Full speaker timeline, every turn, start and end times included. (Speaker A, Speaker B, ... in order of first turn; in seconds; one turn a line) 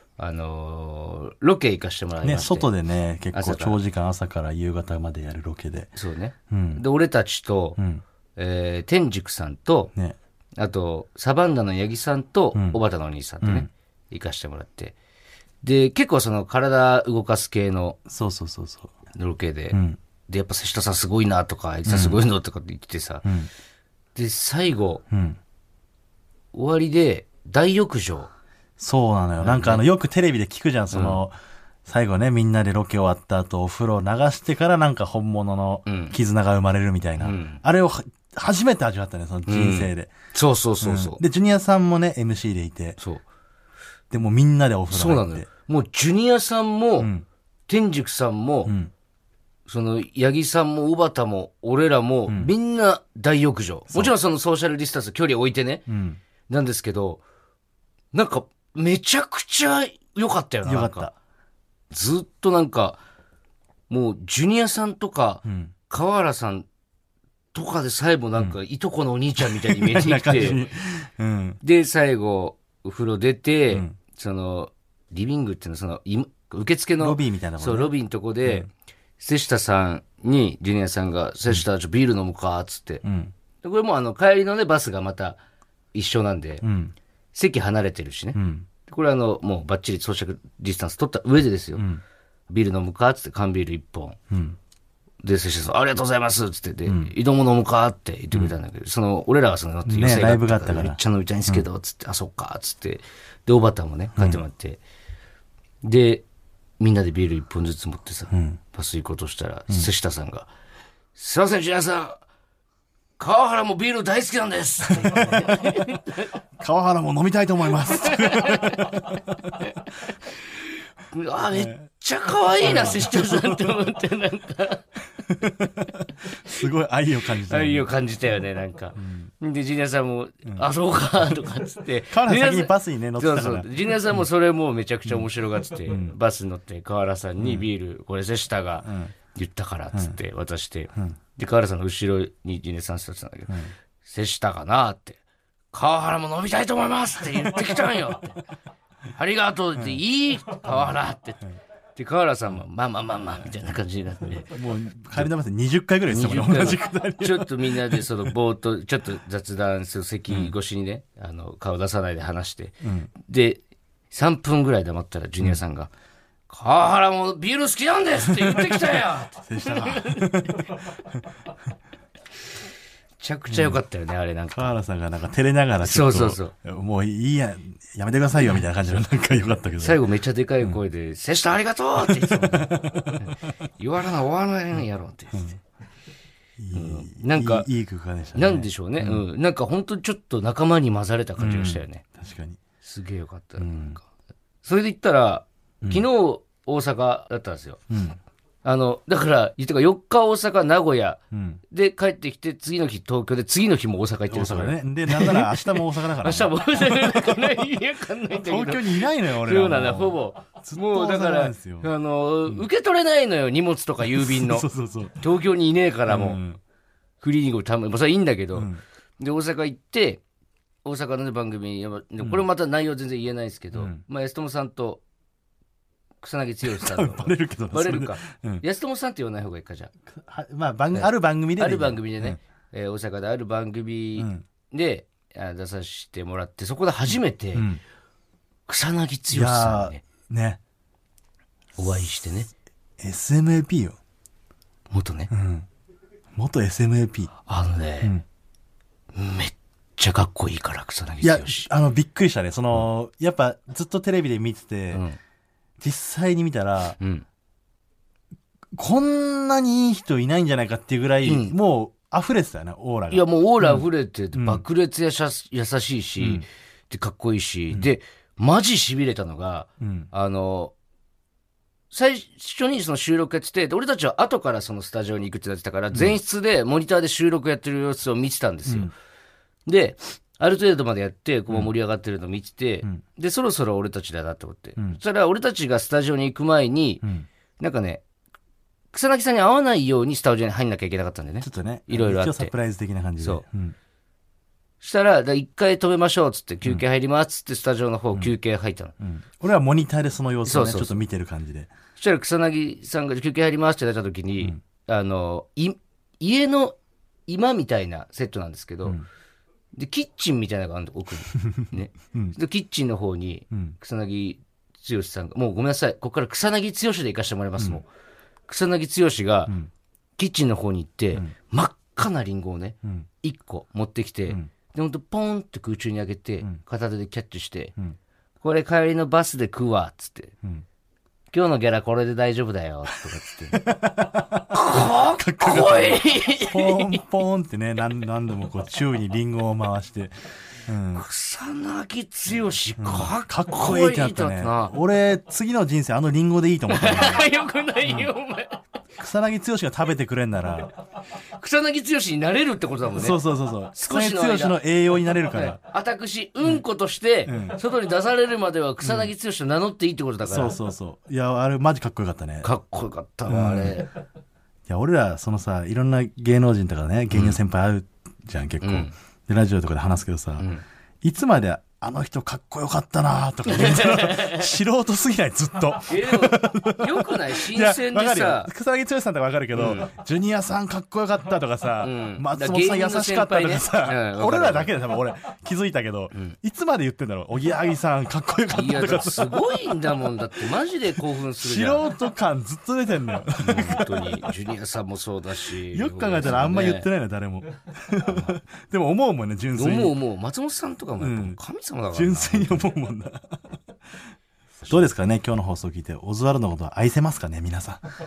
Speaker A: 0.2-2.7
Speaker B: 2.2-6.0
Speaker A: 3.3-3.8
Speaker A: 6.0-7.8
Speaker B: 6.5-6.8
Speaker B: 7.8-8.0
Speaker A: 8.4-9.9
Speaker A: 10.6-14.9
Speaker B: 13.4-13.7
Speaker A: 15.6-18.0
Speaker B: 18.1-18.9
Speaker A: 19.1-23.3
Speaker B: 19.7-20.0
Speaker B: 21.9-22.2
Speaker A: 24.1-25.0
Speaker B: 25.1-25.4
Speaker A: 26.5-28.3
Speaker B: 28.8-31.3
Speaker A: 29.4-29.8
Speaker A: 30.9-31.2
Speaker B: 31.8-40.1
Speaker A: 35.9-36.1
Speaker A: 37.2-37.6
Speaker A: 39.5-41.2
Speaker B: 40.8-43.0
Speaker B: 44.1-45.5
Speaker A: 44.9-47.1
Speaker B: 47.0-47.2
Speaker A: 47.7-48.7
Speaker B: 48.6-48.9
Speaker A: 49.7-55.9
Speaker B: 52.3-52.5
Speaker B: 55.9-56.2
Speaker A: 56.5-57.2
Speaker A: 58.1-61.1
Speaker B: 60.6-61.1
Speaker A: 61.9-63.0
Speaker A: 63.9-66.7
Speaker B: 65.4-65.7
Speaker A: 67.5-70.6
Speaker B: 69.4-71.6
Speaker A: 71.6-83.0
Speaker B: 77.0-77.9
Speaker B: 83.0-83.3
Speaker A: 83.6-85.4
Speaker A: 85.9-86.7
Speaker B: 86.6-86.9
Speaker A: 87.3-91.8
Speaker B: 88.3-88.7
Speaker B: 91.8-92.0
Speaker A: 92.5-94.2
Speaker B: 94.3-94.6
Speaker A: 95.2-104.8
Speaker B: 96.8-97.1
Speaker B: 99.8-101.6
Speaker A: 105.8-106.2
Speaker A: 106.8-110.5
Speaker B: 108.3-108.6
Speaker A: 111.1-112.2
Speaker A: 113.2-116.3
Speaker B: 114.9-115.6
Speaker B: 116.6-119.3
Speaker A: 118.0-118.9
Speaker A: 121.1-124.8
Speaker B: 121.5-121.8
Speaker B: 122.6-123.6
Speaker B: 125.3-127.9
Speaker A: 127.5-145.2
Speaker B: 128.9-129.3
Speaker B: 132.1-134.2
Speaker B: 135.8-136.1
Speaker B: 137.4-137.7
Speaker B: 138.8-139.1
Speaker A: 145.7-148.4
Speaker A: 149.1-151.4
Speaker B: 149.7-150.0
Speaker B: 150.6-150.9
Speaker A: 151.9-154.5
Speaker B: 154.3-158.1
Speaker A: 156.1-165.9
Speaker B: 162.8-163.1
Speaker A: 166.5-170.3
Speaker B: 168.4-168.7
Speaker B: 169.3-171.2
Speaker A: 173.2-174.7
Speaker B: 173.5-173.8
Speaker B: 174.5-180.0
Speaker A: 175.8-176.5
Speaker A: 179.8-185.5
Speaker B: 182.0-183.2
Speaker B: 186.6-189.2
Speaker A: 186.7-187.7
Speaker A: 188.3-192.0
Speaker B: 191.4-192.6
Speaker A: 192.8-194.0
Speaker B: 193.6-194.0
Speaker A: 194.6-197.8
Speaker B: 197.9-198.2
Speaker A: 198.6-216.4
Speaker B: 201.3-201.6
Speaker B: 204.3-207.4
Speaker B: 208.4-211.9
Speaker B: 214.1-215.2
Speaker B: 216.1-216.6
Speaker A: 217.2-220.2
Speaker B: 218.6-218.8
Speaker A: 220.8-225.0
Speaker B: 223.7-224.0
Speaker A: 226.2-229.9
Speaker B: 226.6-228.6
Speaker B: 230.1-232.4
Speaker A: 230.9-237.7
Speaker B: 234.2-234.4
Speaker B: 237.5-237.8
Speaker A: 238.7-240.0
Speaker B: 239.3-240.6
Speaker A: 241.8-242.5
Speaker B: 243.0-244.0
Speaker A: 244.9-245.3
Speaker B: 245.3-245.7
Speaker B: 246.3-247.3
Speaker A: 247.5-248.1
Speaker A: 249.1-251.7
Speaker B: 251.2-255.0
Speaker A: 254.9-255.2
Speaker B: 255.8-257.0
Speaker A: 257.0-257.2
Speaker B: 258.7-264.6
Speaker A: 261.2-261.5
Speaker A: 263.1-270.7
Speaker B: 266.2-266.4
Speaker B: 269.8-270.1
Speaker A: 271.9-278.9
Speaker B: 278.7-278.9
Speaker A: 279.6-287.0
Speaker A: 287.6-288.0
Speaker A: 288.9-292.5
Speaker B: 291.4-293.7
Speaker A: 294.8-298.9
Speaker B: 299.0-301.7
Speaker A: 300.4-301.0
Speaker A: 302.0-306.8
Speaker A: 307.3-309.0
Speaker A: 309.7-317.9
Speaker A: 318.5-319.6
Speaker A: 320.2-327.7
Speaker A: 328.4-330.3
Speaker A: 331.3-333.7
Speaker B: 333.5-334.6
Speaker A: 334.5-337.0
Speaker B: 335.2-340.1
Speaker B: 340.6-341.0
Speaker A: 340.9-344.7
Speaker B: 342.8-347.2
Speaker A: 346.7-348.6
Speaker B: 347.8-348.1
Speaker B: 349.0-350.7
Speaker A: 351.4-353.2
Speaker B: 352.9-355.6
Speaker A: 353.7-354.6
Speaker A: 355.1-360.5
Speaker B: 357.2-357.6
Speaker B: 358.8-359.1
Speaker B: 360.2-362.5
Speaker A: 362.4-363.9
Speaker B: 363.3-363.8
Speaker B: 364.7-370.5
Speaker A: 367.1-367.4
Speaker A: 368.6-368.9
Speaker A: 370.4-370.6
Speaker B: 371.0-389.5
Speaker A: 373.4-374.5
Speaker A: 375.9-378.5
Speaker A: 379.5-379.9
Speaker A: 381.8-384.7
Speaker A: 388.5-391.9
Speaker B: 391.4-394.3
Speaker A: 393.4-396.9
Speaker B: 395.7-400.0
Speaker A: 398.0-398.4
Speaker A: 399.6-402.7
Speaker B: 401.0-401.4
Speaker B: 401.9-403.4
Speaker B: 404.7-407.8